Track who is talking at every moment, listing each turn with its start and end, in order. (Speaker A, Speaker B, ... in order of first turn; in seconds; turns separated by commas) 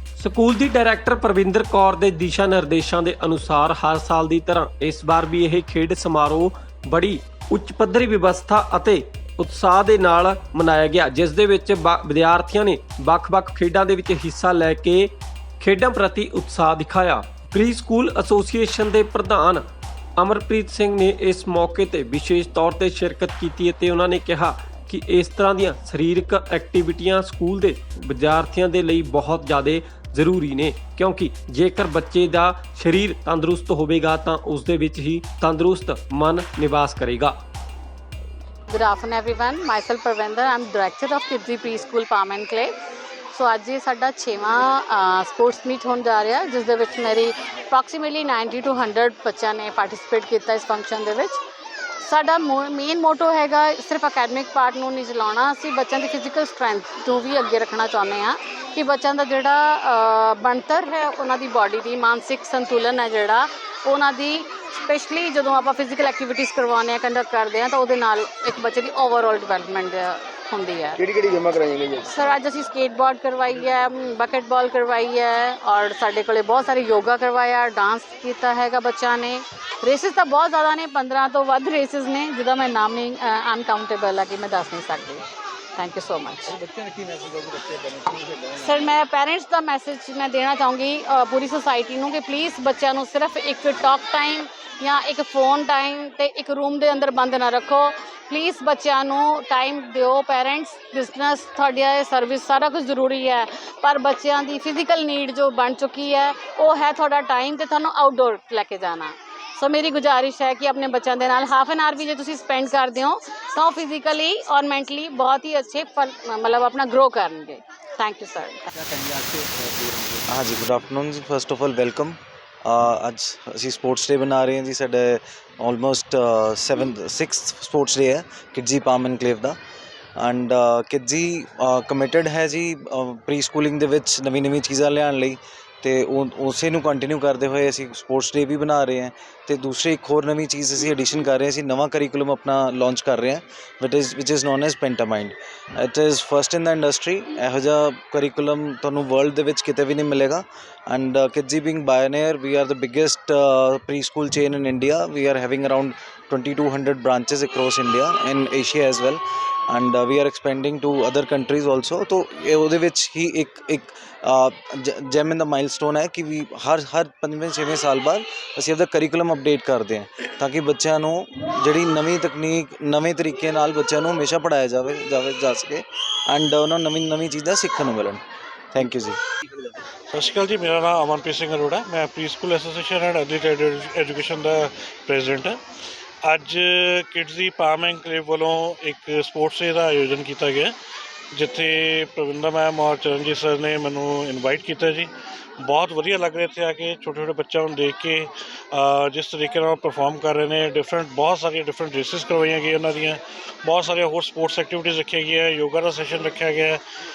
Speaker A: 0.2-19.7, Speaker A: 20.2-37.4, Speaker B: 38.7-42.7, Speaker B: 43.3-51.4, Speaker B: 52.0-71.0, Speaker C: 71.0-72.2, Speaker B: 72.1-85.2, Speaker B: 85.8-86.5, Speaker C: 86.5-88.9, Speaker B: 88.6-118.7, Speaker C: 118.7-120.3, Speaker D: 120.3-129.6, Speaker D: 130.2-178.2, Speaker D: 178.7-179.2, Speaker E: 180.1-185.6, Speaker E: 186.2-190.7, Speaker E: 191.3-195.1, Speaker E: 195.6-206.8